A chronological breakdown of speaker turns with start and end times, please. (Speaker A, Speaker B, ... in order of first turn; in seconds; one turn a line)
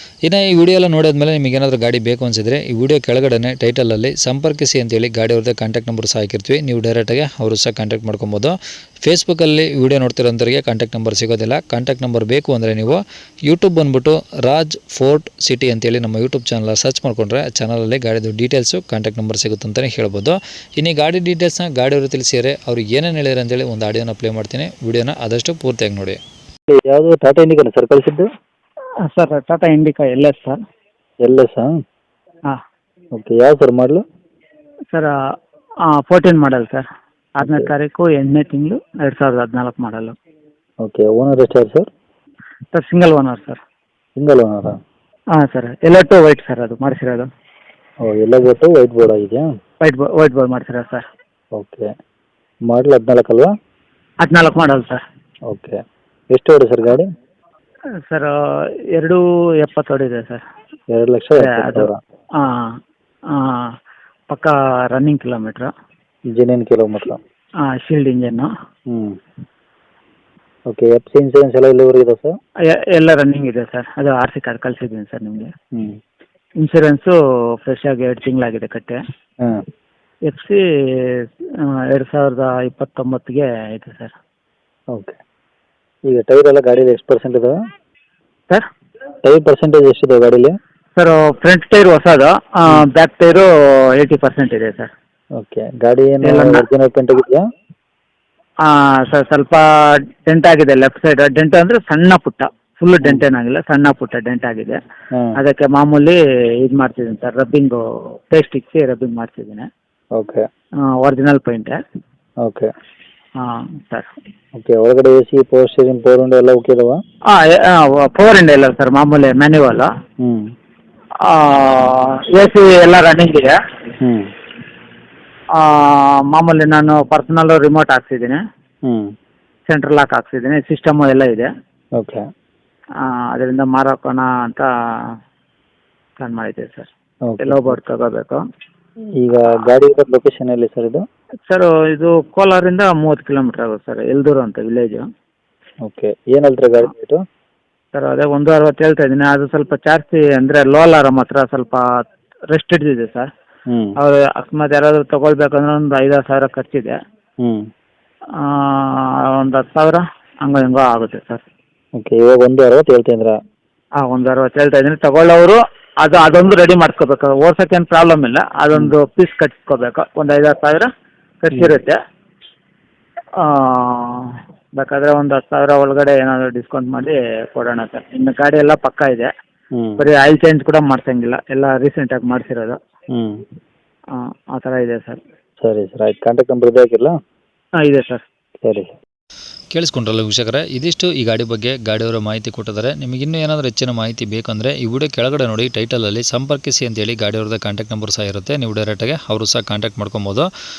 Speaker A: 0.3-8.5
Speaker A: 9.1-26.2
Speaker B: 26.7-28.3
Speaker C: 29.1-30.6
Speaker B: 31.2-31.7
Speaker B: 33.2-34.0
Speaker C: 35.9-40.1
Speaker B: 37.4-37.7
Speaker B: 40.8-41.9
Speaker C: 42.7-43.6
Speaker B: 44.2-44.8
Speaker C: 45.4-47.3
Speaker B: 48.0-49.5
Speaker C: 49.8-51.0
Speaker B: 51.5-51.9
Speaker B: 52.7-53.5
Speaker C: 54.2-55.0
Speaker B: 55.5-55.8
Speaker B: 56.3-57.1
Speaker C: 58.1-58.3
Speaker C: 59.0-60.4
Speaker B: 60.9-62.0
Speaker C: 61.4-62.8
Speaker C: 63.3-63.8
Speaker C: 64.3-65.7
Speaker B: 66.4-67.2
Speaker C: 67.6-68.5
Speaker B: 68.9-69.2
Speaker B: 70.7-72.4
Speaker C: 72.7-75.5
Speaker C: 76.6-79.0
Speaker C: 80.3-84.1
Speaker B: 86.1-87.6
Speaker B: 89.2-90.5
Speaker C: 91.0-94.9
Speaker B: 95.4-97.4
Speaker C: 96.2-96.7
Speaker C: 98.6-104.8
Speaker C: 105.4-109.7
Speaker B: 110.2-110.5
Speaker C: 111.0-111.8
Speaker B: 112.4-112.7
Speaker C: 113.4-114.1
Speaker B: 114.6-117.0
Speaker C: 117.3-119.9
Speaker B: 120.2-120.5
Speaker C: 121.2-123.6
Speaker B: 124.0-124.3
Speaker C: 125.6-128.4
Speaker C: 129.7-131.5
Speaker B: 132.0-132.2
Speaker C: 133.0-134.7
Speaker C: 136.2-136.9
Speaker B: 137.3-137.8
Speaker C: 137.4-138.4
Speaker B: 139.2-141.0
Speaker C: 141.5-145.1
Speaker B: 145.8-147.2
Speaker C: 147.9-151.8
Speaker C: 152.5-153.3
Speaker B: 153.7-153.9
Speaker C: 154.0-157.0
Speaker C: 158.4-161.4
Speaker B: 162.0-163.3
Speaker C: 164.0-170.9
Speaker C: 171.4-172.0
Speaker C: 173.4-179.3
Speaker B: 179.7-180.0
Speaker C: 180.0-182.8
Speaker C: 184.2-185.2
Speaker B: 185.6-187.1
Speaker C: 187.8-188.2
Speaker B: 188.6-188.9
Speaker A: 189.7-200.5